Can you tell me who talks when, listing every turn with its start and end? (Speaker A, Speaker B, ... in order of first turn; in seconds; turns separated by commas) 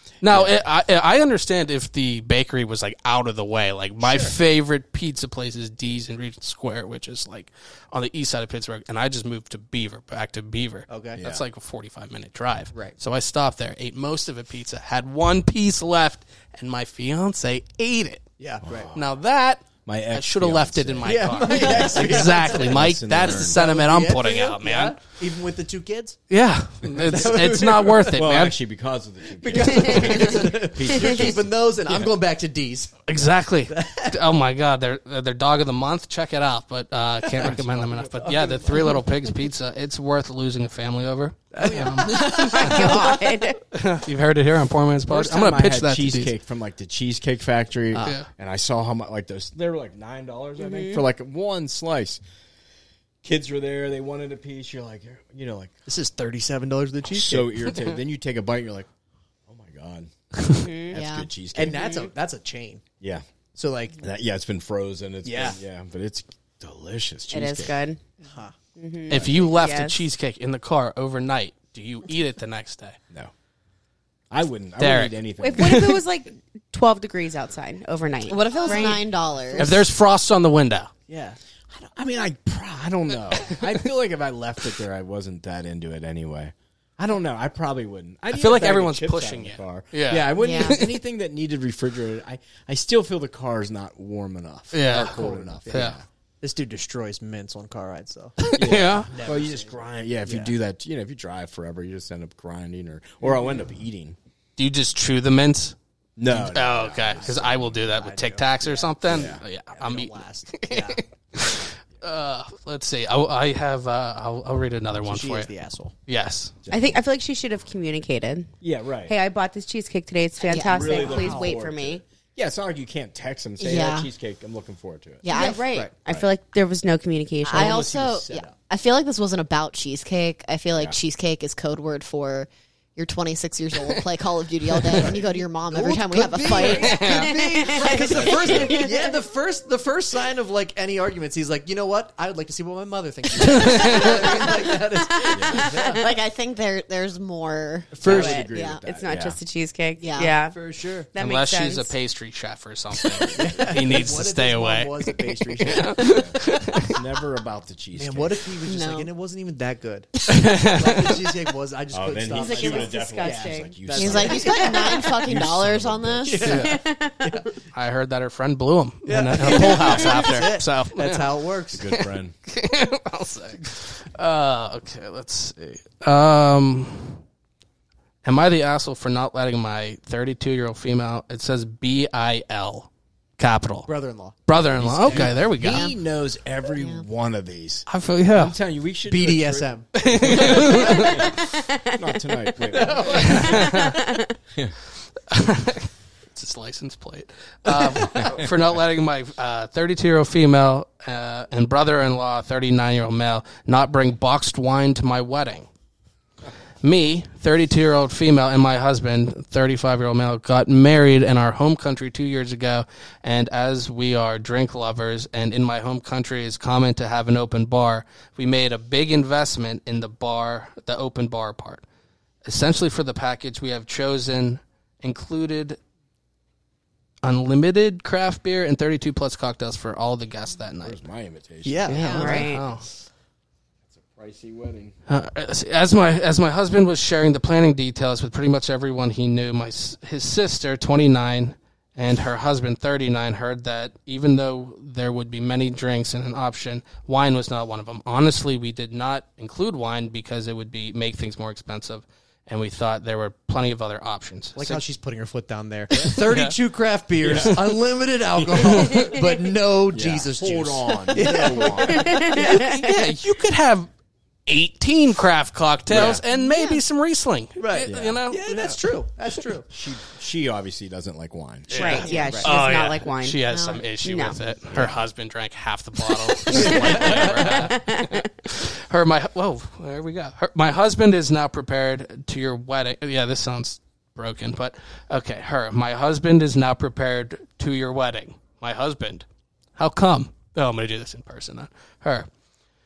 Speaker A: 0.2-18.2, Speaker B: 0.2-0.6, Speaker C: 4.0-4.4, Speaker C: 10.9-11.2, Speaker B: 11.2-11.4, Speaker C: 18.4-18.9, Speaker B: 18.6-19.1, Speaker A: 18.9-25.0, Speaker B: 19.8-23.6, Speaker C: 21.0-26.2, Speaker A: 26.3-28.6, Speaker B: 26.8-31.6, Speaker C: 27.1-28.3, Speaker C: 29.4-34.2, Speaker A: 33.1-43.1, Speaker C: 37.2-39.4, Speaker C: 41.5-43.2, Speaker D: 42.1-43.6, Speaker A: 43.7-46.4, Speaker B: 45.1-52.2, Speaker C: 47.9-48.2, Speaker A: 48.0-48.3, Speaker D: 50.6-51.0, Speaker B: 53.2-55.7, Speaker C: 55.9-57.8, Speaker B: 57.1-58.9, Speaker B: 59.5-60.1, Speaker D: 60.5-61.0, Speaker B: 60.9-61.8, Speaker E: 60.9-61.3, Speaker C: 61.5-62.8, Speaker D: 61.8-62.1, Speaker C: 63.5-64.0, Speaker B: 64.0-67.8, Speaker C: 65.2-65.6, Speaker D: 67.3-68.0, Speaker C: 68.2-68.5, Speaker D: 68.8-70.1, Speaker A: 69.1-73.0, Speaker B: 69.1-69.4, Speaker B: 74.3-75.8, Speaker A: 74.8-76.0, Speaker D: 75.4-79.1, Speaker E: 78.3-79.7, Speaker C: 78.6-79.0, Speaker C: 79.5-79.8, Speaker A: 79.6-80.9, Speaker C: 81.1-81.4, Speaker B: 81.8-96.0, Speaker A: 88.3-91.0, Speaker E: 90.4-90.8, Speaker A: 94.7-96.0, Speaker C: 95.0-98.5, Speaker A: 98.4-99.1, Speaker B: 98.5-104.2, Speaker C: 99.1-100.5, Speaker A: 104.6-105.8, Speaker B: 106.2-107.7, Speaker A: 106.3-115.5, Speaker C: 106.9-111.6, Speaker B: 109.0-109.4, Speaker C: 115.0-115.9, Speaker A: 116.1-116.5, Speaker B: 116.6-117.0, Speaker D: 116.7-118.5, Speaker B: 118.6-119.2, Speaker D: 119.1-122.0, Speaker E: 120.4-121.5, Speaker B: 120.6-125.2, Speaker C: 121.1-121.5, Speaker E: 123.6-124.1, Speaker E: 125.2-125.7, Speaker D: 125.3-127.8, Speaker C: 125.4-126.0, Speaker E: 127.4-137.1, Speaker B: 127.6-128.5, Speaker C: 134.9-146.1, Speaker A: 136.7-137.3, Speaker D: 136.9-138.9, Speaker E: 137.8-138.9, Speaker B: 138.0-138.8, Speaker A: 143.4-144.1, Speaker B: 145.3-145.7, Speaker E: 145.5-148.8, Speaker C: 147.9-148.4, Speaker B: 148.0-149.4, Speaker D: 148.1-150.6, Speaker E: 150.0-150.3, Speaker C: 150.4-151.1, Speaker D: 151.1-151.9, Speaker A: 151.2-157.0, Speaker C: 153.3-156.2, Speaker B: 155.8-158.4, Speaker C: 158.0-165.2, Speaker E: 158.7-159.1, Speaker A: 160.3-161.2, Speaker B: 161.9-164.5, Speaker D: 162.3-163.9, Speaker E: 163.9-166.5, Speaker B: 165.2-166.3, Speaker C: 166.3-167.5, Speaker A: 166.4-166.8, Speaker D: 166.6-167.5, Speaker A: 167.7-171.3, Speaker C: 169.1-171.9, Speaker B: 171.7-172.3, Speaker A: 171.9-177.2, Speaker A: 178.2-183.9, Speaker C: 183.9-185.8, Speaker A: 184.5-185.9, Speaker B: 184.8-193.8, Speaker E: 186.8-187.1, Speaker A: 187.9-188.6, Speaker C: 189.1-191.1, Speaker A: 189.9-191.4, Speaker C: 192.7-193.9, Speaker A: 193.1-194.1, Speaker D: 193.7-194.2, Speaker A: 195.3-205.7, Speaker C: 197.7-198.3, Speaker B: 198.1-198.5, Speaker A: 206.8-221.8, Speaker A: 222.4-225.8, Speaker A: 227.2-231.0, Speaker B: 230.8-231.9, Speaker C: 231.6-232.5, Speaker E: 231.9-232.4, Speaker D: 232.1-232.7, Speaker A: 232.1-232.8, Speaker B: 233.9-234.9, Speaker A: 235.1-254.8, Speaker C: 254.6-262.7, Speaker B: 255.9-256.2, Speaker A: 256.0-256.6, Speaker B: 257.2-257.8, Speaker B: 258.4-259.1, Speaker B: 259.9-262.3, Speaker D: 261.7-262.8, Speaker A: 262.2-263.9, Speaker A: 264.5-268.6, Speaker B: 265.9-266.2, Speaker E: 266.3-266.8, Speaker C: 267.6-269.7, Speaker B: 267.9-268.8, Speaker B: 269.7-271.9, Speaker A: 271.7-292.3, Speaker D: 271.7-273.4, Speaker E: 272.0-272.4, Speaker C: 272.1-272.6, Speaker E: 273.5-273.9, Speaker D: 274.0-274.4, Speaker B: 274.7-275.0, Speaker C: 276.4-277.7, Speaker B: 276.6-277.7, Speaker D: 277.7-278.2